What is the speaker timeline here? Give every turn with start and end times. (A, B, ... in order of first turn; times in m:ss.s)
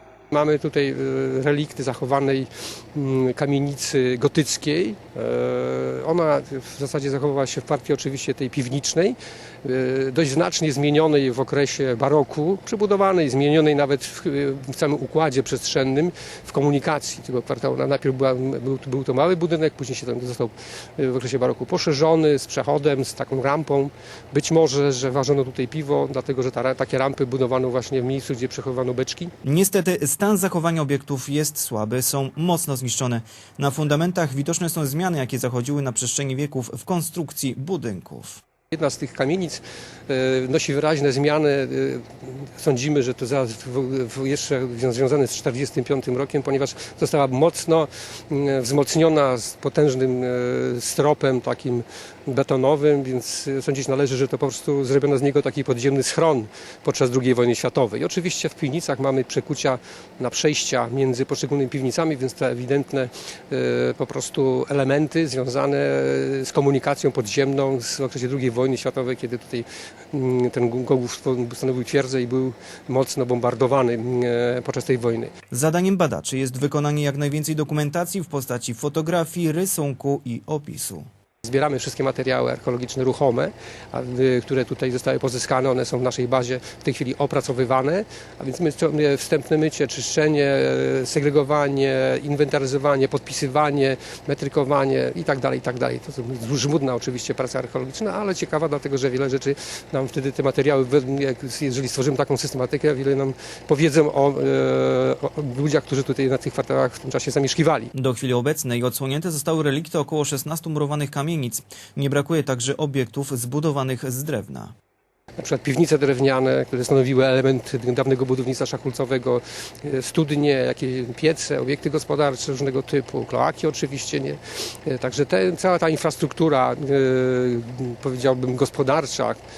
0:00.3-0:29.3 A
0:29.4-0:38.4 B
0:38.7-1:15.3 A
1:15.5-1:21.0 B
1:21.4-1:47.9 A
1:47.9-1:54.7 B
1:55.4-2:09.4 A